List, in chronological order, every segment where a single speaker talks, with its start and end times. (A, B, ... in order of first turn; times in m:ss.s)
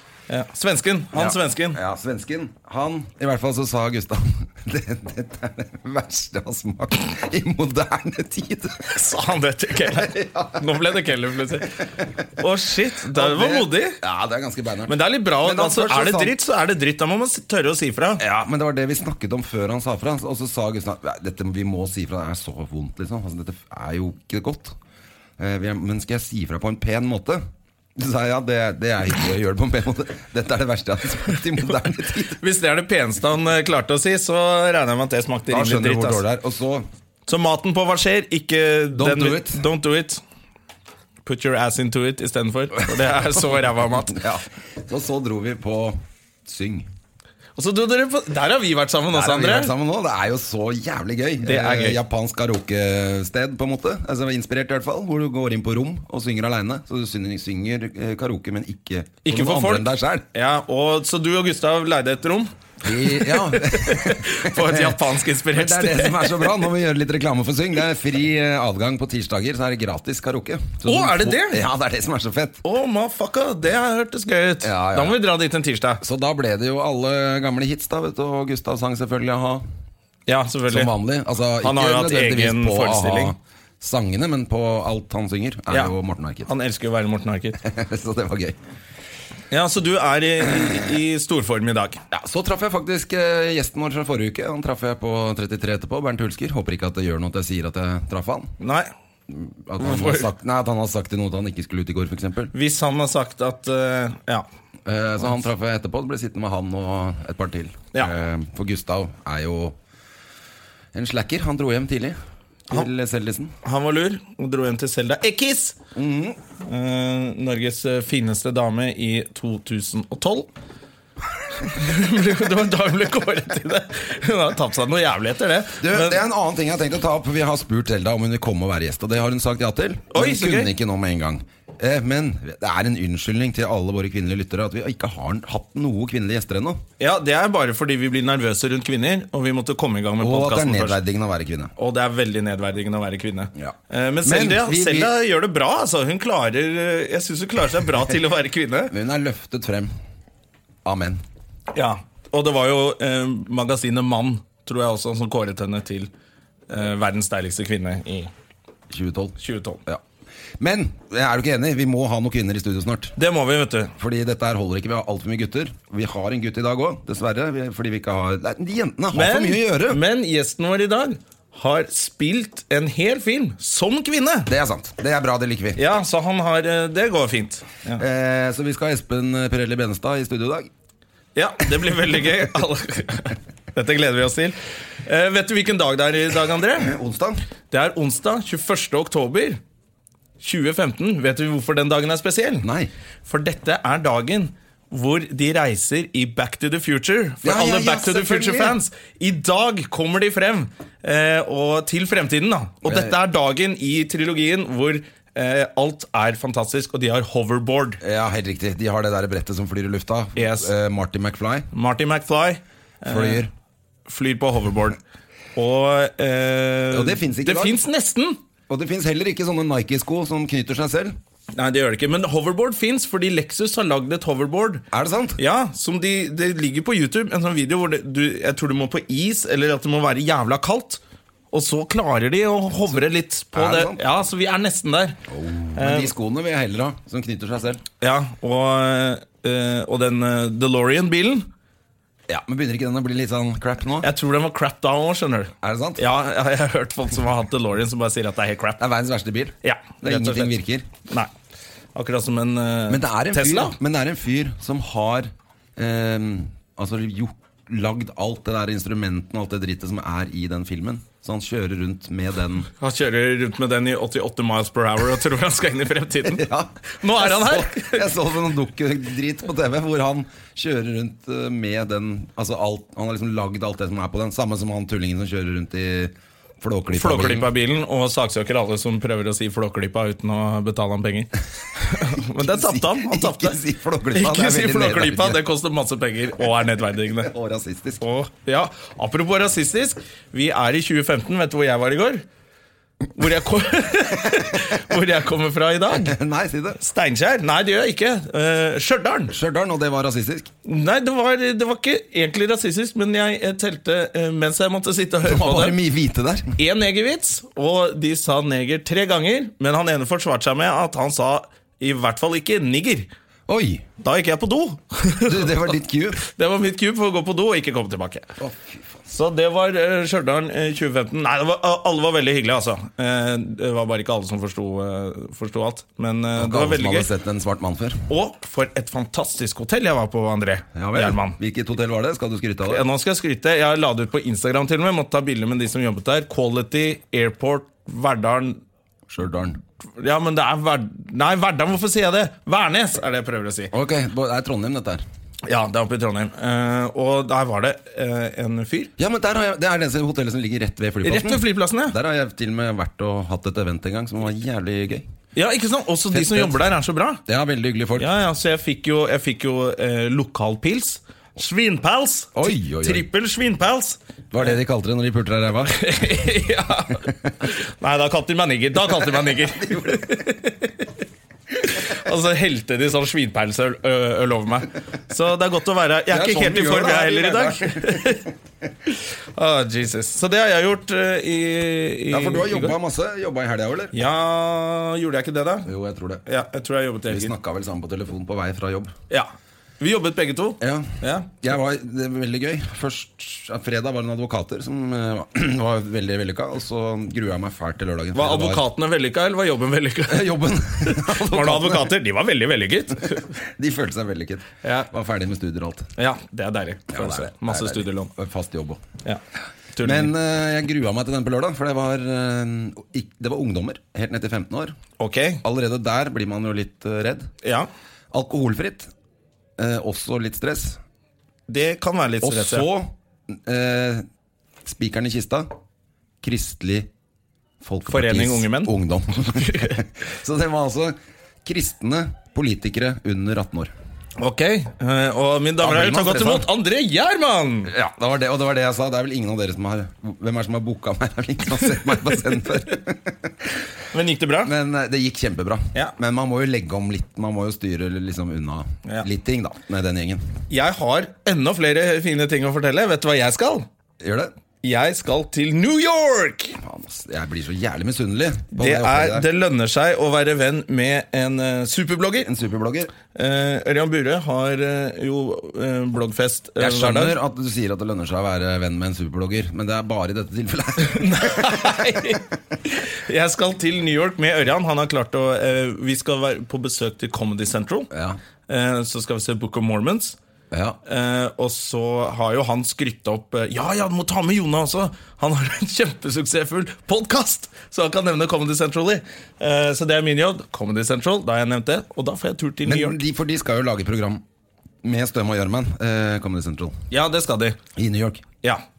0:00.3-0:01.8 A
0:01.1-0:08.9 B
0:08.9-0:11.8 A
0:09.8-0:10.7 B
0:12.4-0:14.0 A
0:13.1-0:16.4 B
0:14.9-0:18.2 A
0:18.2-0:24.8 B
0:25.4-0:27.4 B
0:28.0-0:32.4 B
0:32.4-0:36.2 A
0:35.5-0:36.9 B
0:37.3-0:40.2 A
0:39.0-0:39.6 B
0:41.2-0:44.2 A
0:42.8-0:46.9 B
0:47.6-0:49.7 A
0:49.1-1:00.3 B
0:51.4-0:52.0 A
0:59.2-1:06.6 A
1:02.8-1:12.6 B
1:10.8-1:11.6 A
1:12.6-1:16.0 A
1:14.6-1:15.2 B
1:16.0-1:19.6 B
1:20.3-1:20.9 A
1:20.7-1:26.5 B
1:21.6-1:23.3 A
1:26.4-1:27.6 A
1:27.6-1:28.6 B
1:29.5-1:32.0 A
1:32.1-1:38.5 B
1:38.6-1:38.9 A
1:39.3-1:42.5 B
1:39.8-1:40.3 A
1:42.5-1:44.4 A
1:44.8-1:49.8 B
1:50.9-1:53.6 B
1:53.6-1:55.8 A
1:56.0-1:56.4 B
1:56.6-2:00.5 A
2:01.6-2:06.2 A
2:05.8-2:16.8 B
2:10.1-2:10.7 A
2:17.0-2:21.0 A
2:20.2-2:21.7 B
2:21.8-2:28.9 A
2:23.6-2:25.1 B
2:28.9-2:29.9 B
2:30.8-2:31.2 B
2:31.7-2:36.1 A
2:36.7-2:38.3 A
2:38.9-2:40.0 B
2:39.4-2:39.8 A
2:40.6-2:43.2 B
2:43.2-2:43.9 A
2:44.0-2:50.0 B
2:49.1-2:54.5 A
2:54.5-2:55.8 B
2:55.8-2:58.0 A
2:58.0-3:00.7 B
3:01.4-3:06.9 A
3:06.8-3:07.4 B
3:07.7-3:09.6 A
3:10.4-3:12.7 A
3:12.6-3:12.9 B
3:13.2-3:28.0 A
3:17.4-3:18.8 B
3:22.8-3:23.2 B
3:28.0-3:31.7 B
3:30.4-3:30.7 A
3:31.7-3:33.4 A
3:33.0-3:33.5 B
3:34.1-3:35.0 A
3:35.6-3:38.4 A
3:36.9-3:37.8 B
3:38.7-3:41.2 B
3:41.6-3:44.8 A
3:44.9-3:45.4 B
3:45.4-3:51.0 A
3:51.5-3:55.2 A
3:52.9-3:54.1 B
3:55.3-3:57.8 B
3:55.8-3:56.1 A
3:58.0-4:01.5 A
4:02.3-4:04.1 B
4:04.0-4:08.8 A
4:05.6-4:06.0 B
4:08.8-4:10.9 B
4:09.6-4:10.6 A
4:12.0-4:13.8 A
4:12.9-4:22.7 B
4:22.8-4:28.1 A
4:26.2-4:37.5 B
4:36.9-4:43.6 A
4:41.8-4:45.4 B
4:44.1-4:47.3 A
4:47.3-4:48.0 B
4:48.0-4:52.2 A
4:53.2-4:56.2 A
4:55.9-4:56.8 B
4:56.8-4:59.4 A
4:59.3-5:00.5 B
5:00.6-5:05.8 A
5:05.2-5:06.6 B
5:06.6-5:13.1 A
5:13.5-5:13.9 B
5:14.0-5:15.6 A
5:15.2-5:16.2 B
5:16.2-5:18.3 A
5:18.4-5:19.0 B
5:19.1-5:27.1 A
5:26.4-5:28.0 B
5:28.1-5:31.4 A
5:30.7-5:32.9 B
5:32.7-5:38.6 A
5:39.1-5:39.6 B
5:40.0-5:43.7 A
5:43.7-5:45.0 B
5:45.5-5:48.9 A
5:49.0-5:55.1 B
5:51.0-5:52.0 A
5:55.4-5:57.2 A
5:56.1-5:56.7 B
5:57.3-5:58.2 B
5:58.0-6:04.0 A
6:02.3-6:03.1 B
6:04.3-6:06.1 B
6:05.7-6:10.8 A
6:08.8-6:10.3 B
6:11.6-6:18.3 A
6:16.1-6:18.3 B
6:18.9-6:22.8 A
6:22.1-6:24.0 B
6:23.9-6:25.7 A
6:25.7-6:26.2 B
6:26.3-6:27.4 A
6:27.1-6:28.9 B
6:29.1-6:31.3 A
6:30.6-6:38.6 B
6:38.1-6:43.3 A
6:40.1-6:42.0 B
6:43.0-6:45.9 B
6:44.6-6:44.9 A
6:46.0-6:48.1 A
6:46.9-6:48.8 B
6:49.8-6:50.1 A
6:49.8-6:54.8 B
6:55.0-6:55.4 A
6:55.4-6:57.3 B
6:57.4-6:57.7 A
6:58.1-6:58.9 B
6:59.6-7:00.8 B
7:01.5-7:02.7 A
7:02.2-7:04.1 B
7:04.6-7:05.5 B
7:06.2-7:06.9 B
7:07.6-7:13.7 B
7:07.9-7:08.7 A
7:09.3-7:09.8 A
7:14.2-7:17.7 A
7:15.6-7:16.5 B
7:17.7-7:23.6 B
7:23.9-7:24.5 A
7:24.4-7:30.3 B
7:30.5-7:33.7 A
7:34.0-7:34.3 B
7:34.6-7:36.6 A
7:36.6-7:39.3 B
7:38.5-7:42.3 A
7:42.2-7:42.9 B
7:43.1-7:47.2 A
7:46.6-7:52.2 B
7:50.8-7:57.9 A
7:57.9-7:58.2 B
7:58.5-8:00.2 A
8:00.5-8:00.8 B
8:00.9-8:13.0 A
8:12.6-8:14.2 B
8:14.8-8:16.8 B
8:16.9-8:17.6 A
8:17.8-8:18.2 B